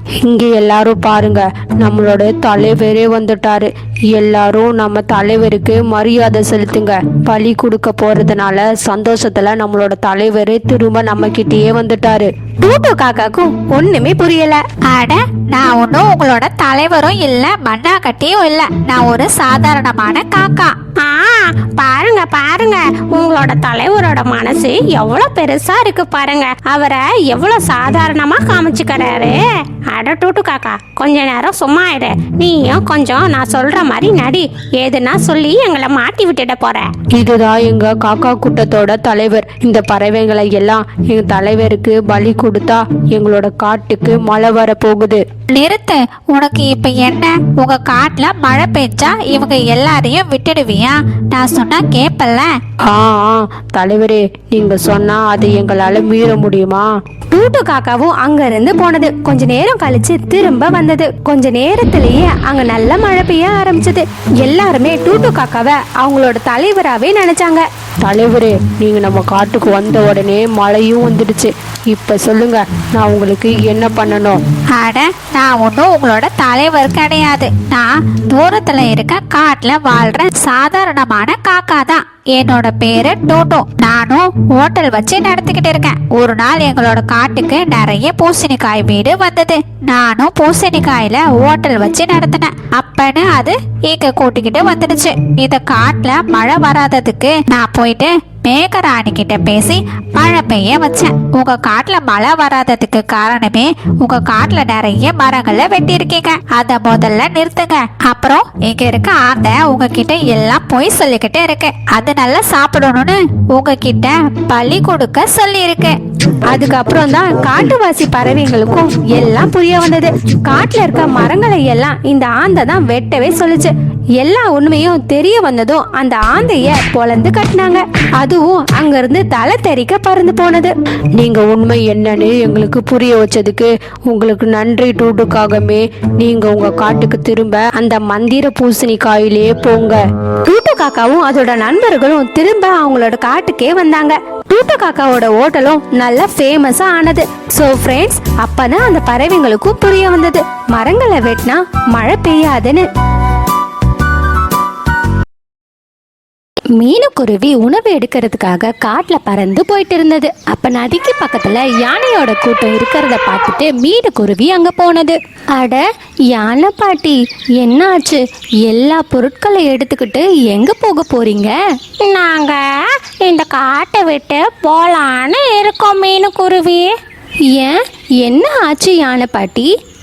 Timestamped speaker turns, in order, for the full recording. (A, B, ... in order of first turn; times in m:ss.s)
0:00.2-0:12.3 A
0:12.6-0:14.6 B
0:14.8-0:20.7 C
0:21.0-0:36.9 D
0:37.1-0:45.2 A
0:45.5-0:52.5 C
0:52.8-0:56.9 A
0:57.3-1:07.7 B
1:08.0-1:14.4 A
1:14.7-1:56.0 C
1:56.5-2:10.7 B
2:11.2-2:20.0 A
2:20.4-2:32.9 B
2:36.8-2:51.6 B
2:52.0-2:56.9 D
2:57.5-2:59.7 B